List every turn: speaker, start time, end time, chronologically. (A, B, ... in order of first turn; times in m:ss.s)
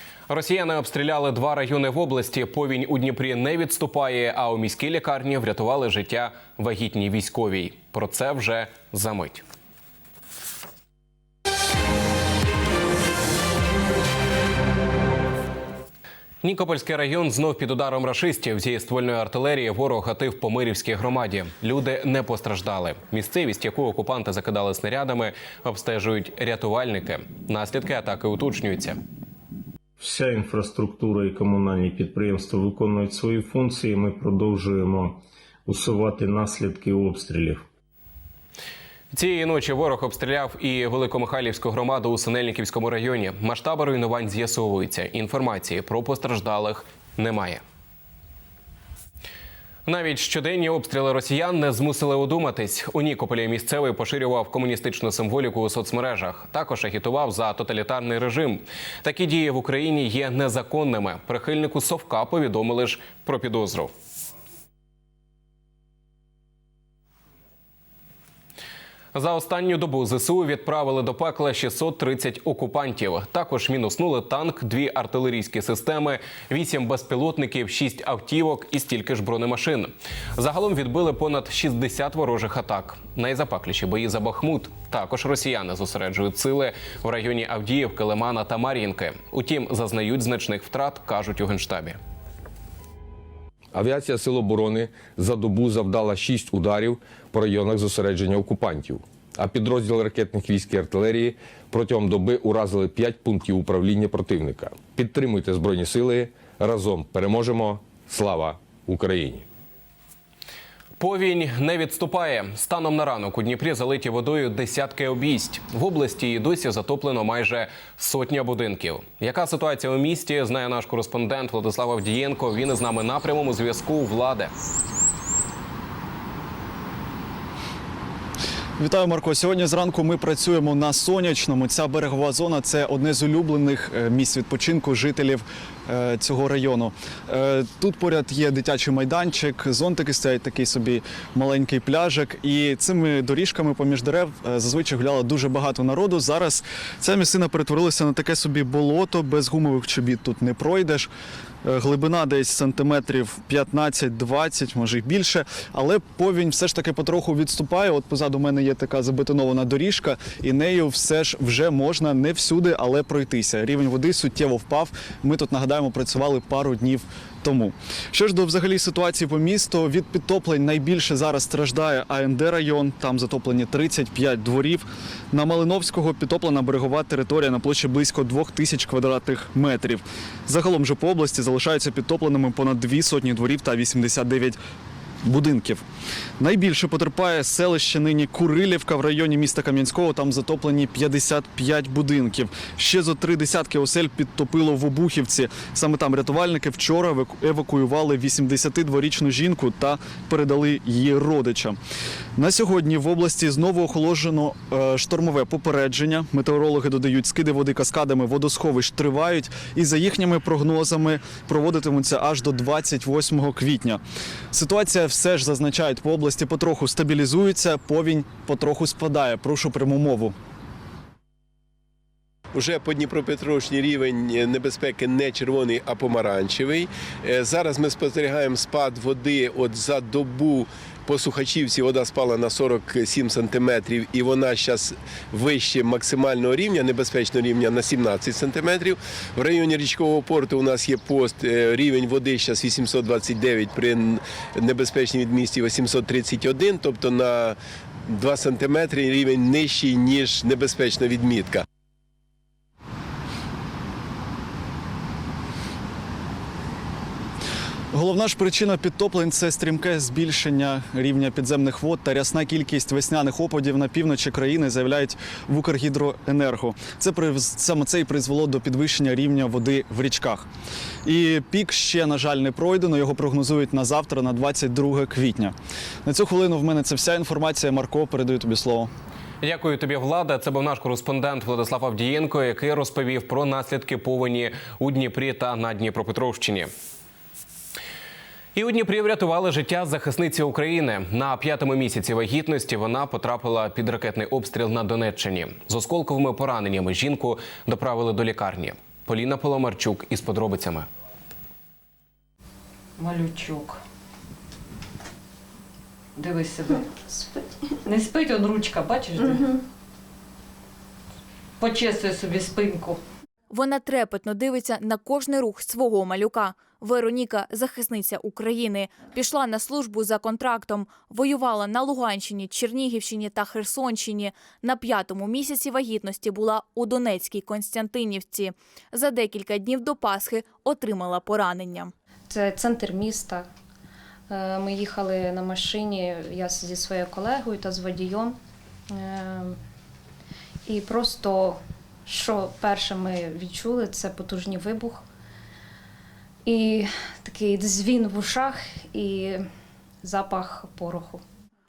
0:00.3-0:09.4 A
0:16.4-0:29.0 A
0:30.0-0:37.6 B
0:39.1-0:47.6 A
0:49.8-1:03.9 A
1:09.1-1:32.0 A
1:33.7-1:49.4 C
1:51.0-2:04.5 A
2:08.8-2:31.1 D
2:31.6-3:04.6 D
3:05.2-3:05.8 D
3:06.4-3:21.8 D
3:22.4-3:34.0 D
3:34.5-3:40.3 D
3:42.5-4:07.6 E
4:08.1-4:11.6 E
4:17.9-4:30.4 D
4:31.0-4:35.5 D
4:36.0-4:38.9 D
4:39.4-4:46.7 A
4:48.5-5:00.9 A
5:03.0-5:03.8 F
5:06.2-5:06.8 F
5:06.7-5:07.5 G
5:07.8-5:09.4 F
5:09.2-5:09.6 G
5:11.6-5:13.0 F
5:13.5-5:31.9 H
5:32.3-5:33.5 G
5:34.3-5:38.4 G
5:38.9-5:39.6 G
5:40.7-5:45.0 G
5:46.4-5:49.4 G
5:50.0-5:51.2 G